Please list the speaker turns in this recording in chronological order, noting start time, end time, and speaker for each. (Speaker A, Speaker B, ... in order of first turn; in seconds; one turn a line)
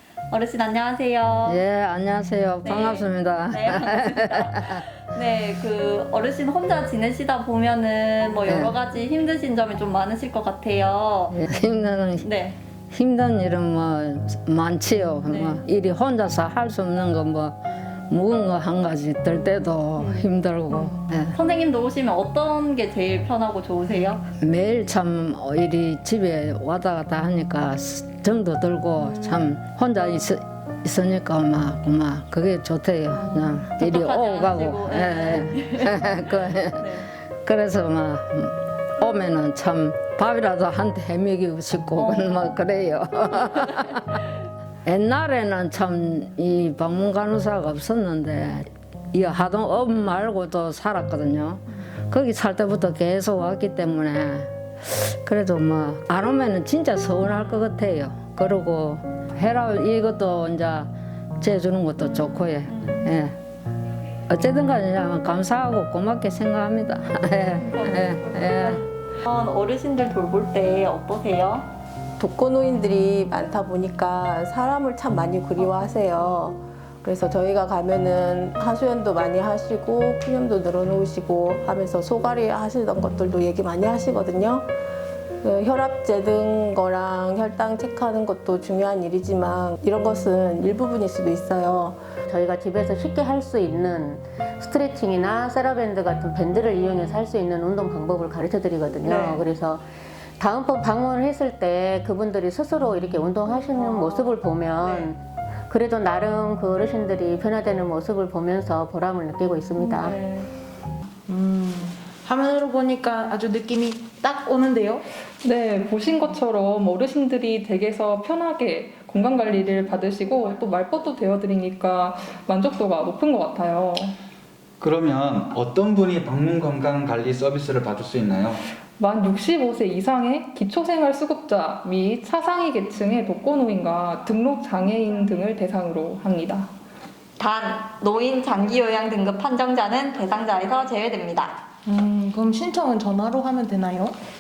Speaker A: 0.3-1.6
Speaker B: 1.4-4.8
Speaker A: 2.6-11.3
Speaker B: 8.5-8.7
Speaker B: 11.3-12.3
Speaker A: 12.2-12.6
Speaker B: 12.9-17.6
Speaker A: 15.3-15.6
Speaker B: 18.1-21.4
Speaker A: 20.0-20.3
Speaker A: 21.3-24.2
Speaker B: 24.4-36.9
Speaker A: 29.0-29.4
Speaker A: 33.1-36.2
Speaker A: 36.8-37.1
Speaker B: 37.4-44.2
Speaker B: 44.9-63.4
Speaker A: 62.6-63.1
Speaker B: 64.3-68.8
Speaker A: 67.7-71.7
Speaker C: 72.2-84.7
Speaker C: 85.4-92.0
Speaker D: 92.3-99.9
Speaker A: 96.9-97.2
Speaker A: 99.0-99.4
Speaker D: 100.4-110.2
Speaker A: 103.7-105.1
Speaker A: 109.8-110.5
Speaker E: 111.3-115.0
Speaker F: 115.4-124.1
Speaker G: 124.8-128.6
Speaker F: 129.0-136.7
Speaker A: 137.4-141.6
Speaker E: 141.9-144.1